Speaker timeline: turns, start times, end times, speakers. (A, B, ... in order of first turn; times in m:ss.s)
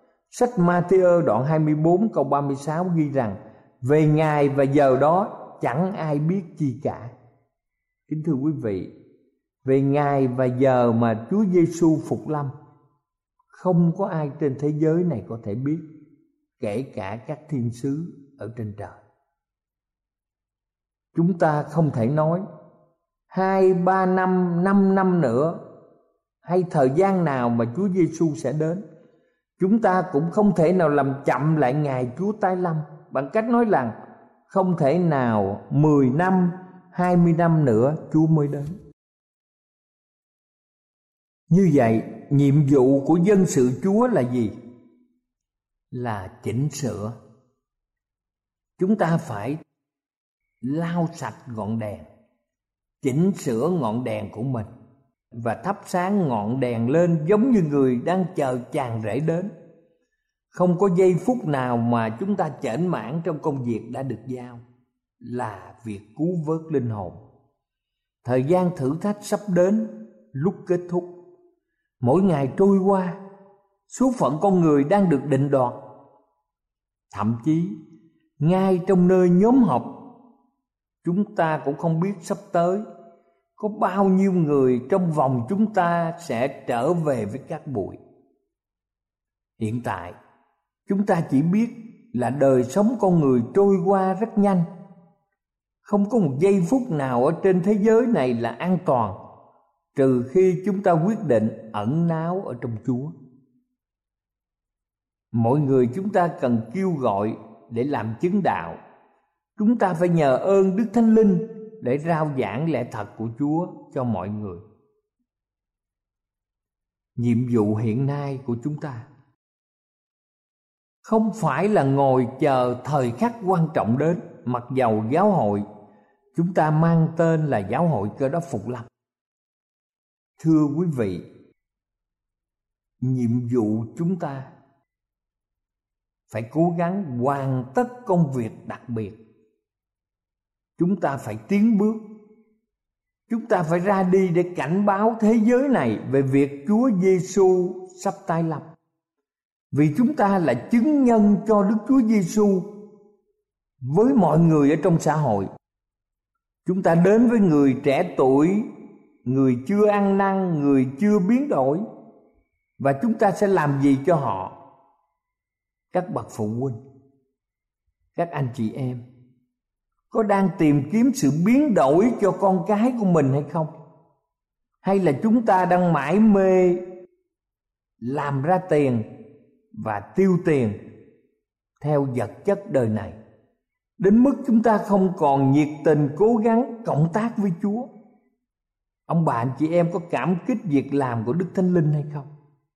0:00.3-0:07.1 A
0:08.1-0:08.9 A
0:09.6-0:12.5 A
0:13.5-0:15.9 A
0:16.6-0:19.0 A
0:21.1-0:22.4 A
0:23.3-0:25.6 A
0:26.4-0:28.8 A
0:29.6-0:33.9 A
0:34.5-0:38.8 A
0:41.5-0:44.6 A
0:45.9-0:47.2 A
0:48.8-0:49.6 A
0:50.6-0:52.1 A
0:53.0-0:54.7 A
0:55.4-0:59.5 A
1:00.5-1:04.6 A
1:05.2-1:07.2 A
1:08.2-1:11.1 A
1:12.0-1:13.2 A
1:13.9-1:15.8 A
1:17.1-1:17.8 A
1:18.4-1:19.9 A
1:21.0-1:22.8 A
1:23.6-1:28.0 A
1:29.6-1:30.2 A
1:30.9-1:34.7 A
1:35.8-1:39.2 A
1:40.0-1:43.1 A
1:45.3-1:48.8 A
1:49.6-1:54.6 A
1:57.2-1:59.1 A
2:01.0-2:05.7 A
2:06.4-2:08.9 A
2:10.4-2:11.2 A
2:13.0-2:14.5 A
2:16.3-2:19.2 A
2:20.8-2:22.0 A
2:23.3-2:28.7 A
2:29.7-2:32.7 A
2:33.8-2:35.5 A
2:36.7-2:38.7 A
2:39.2-2:41.8 A
2:42.8-2:44.6 A
2:45.9-2:46.8 A
2:48.2-2:49.0 A
2:50.1-2:53.7 A
2:54.8-2:56.8 A
2:58.0-2:59.1 A
2:59.8-3:00.8 A
3:01.8-3:03.2 A
3:04.0-3:07.9 A
3:09.1-3:12.3 A